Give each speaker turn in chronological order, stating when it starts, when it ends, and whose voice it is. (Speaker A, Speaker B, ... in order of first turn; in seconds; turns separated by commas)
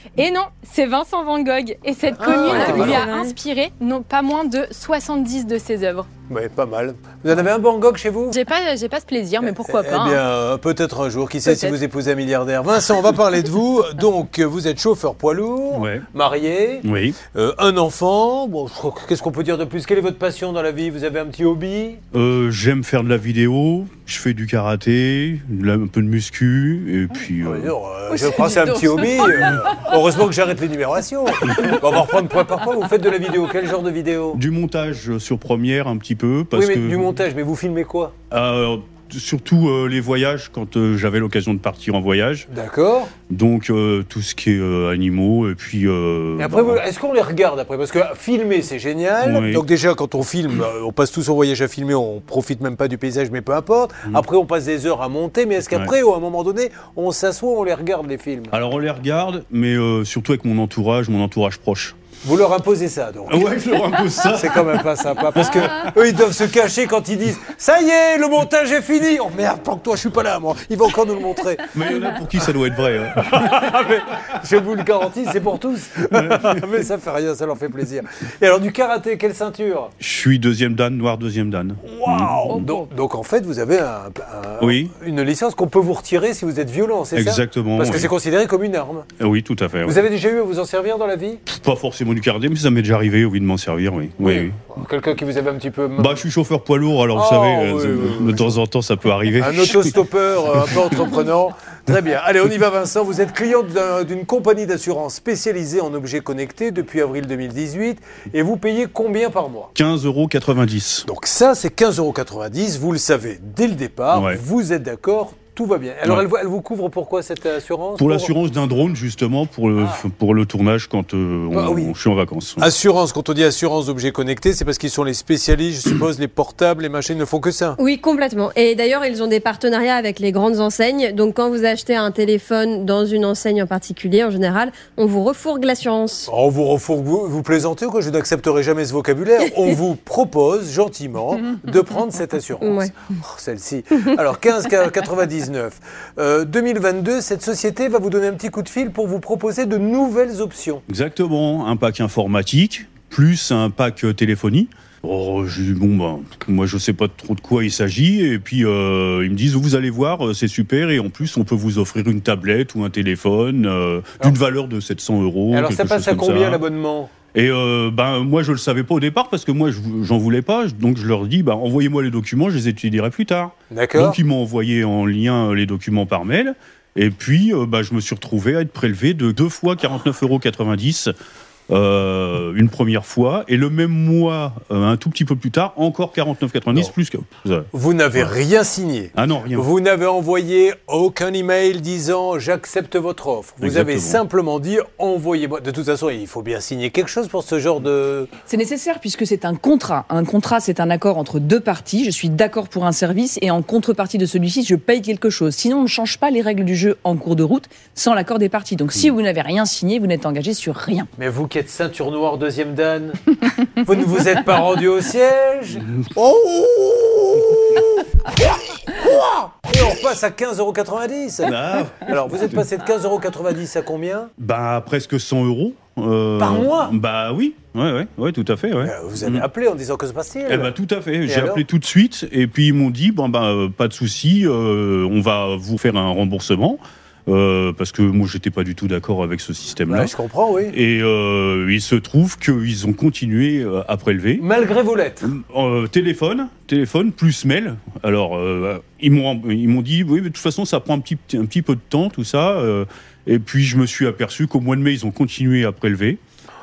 Speaker A: 0.2-6.1, Speaker B: 2.2-3.0, Speaker C: 2.2-3.3, Speaker B: 6.3-8.4, Speaker A: 8.3-10.2, Speaker B: 9.4-22.0, Speaker D: 15.7-16.0, Speaker D: 16.8-17.2, Speaker D: 22.1-27.7, Speaker B: 27.4-34.4, Speaker D: 34.3-37.1, Speaker B: 36.5-38.1, Speaker D: 38.3-42.5, Speaker B: 42.5-43.1, Speaker D: 43.3-46.8, Speaker B: 46.4-58.5, Speaker D: 49.2-49.6, Speaker D: 58.5-62.0, Speaker B: 62.2-63.5, Speaker D: 63.3-65.9, Speaker B: 64.3-71.7, Speaker D: 71.7-73.5, Speaker B: 73.1-79.9, Speaker D: 76.1-76.6, Speaker D: 80.0-82.7, Speaker B: 81.9-89.1, Speaker E: 82.5-82.8, Speaker D: 84.6-84.9, Speaker D: 87.1-88.1, Speaker D: 89.2-90.0, Speaker B: 89.8-91.4, Speaker D: 91.5-94.7, Speaker B: 94.2-96.2, Speaker D: 96.0-99.9, Speaker B: 97.1-98.6, Speaker B: 99.4-109.7, Speaker D: 109.7-111.1, Speaker B: 111.0-118.3, Speaker D: 114.1-114.4, Speaker D: 118.0-122.7, Speaker B: 121.5-121.9, Speaker B: 122.6-127.8, Speaker C: 127.8-136.3, Speaker B: 136.3-150.8, Speaker C: 142.6-142.9, Speaker D: 150.9-166.6, Speaker B: 165.5-167.1, Speaker D: 167.3-181.1, Speaker B: 173.7-174.2, Speaker D: 181.7-188.3, Speaker B: 187.7-198.3, Speaker D: 189.1-189.7, Speaker D: 193.6-194.2, Speaker E: 198.5-211.1, Speaker B: 211.2-213.2, Speaker B: 213.8-224.3, Speaker D: 221.4-222.6, Speaker D: 224.4-229.5, Speaker B: 226.4-226.9, Speaker B: 228.8-230.7, Speaker D: 230.5-240.1, Speaker B: 231.2-231.6, Speaker B: 239.9-240.7, Speaker D: 240.7-244.4, Speaker B: 244.4-245.3, Speaker D: 245.2-256.2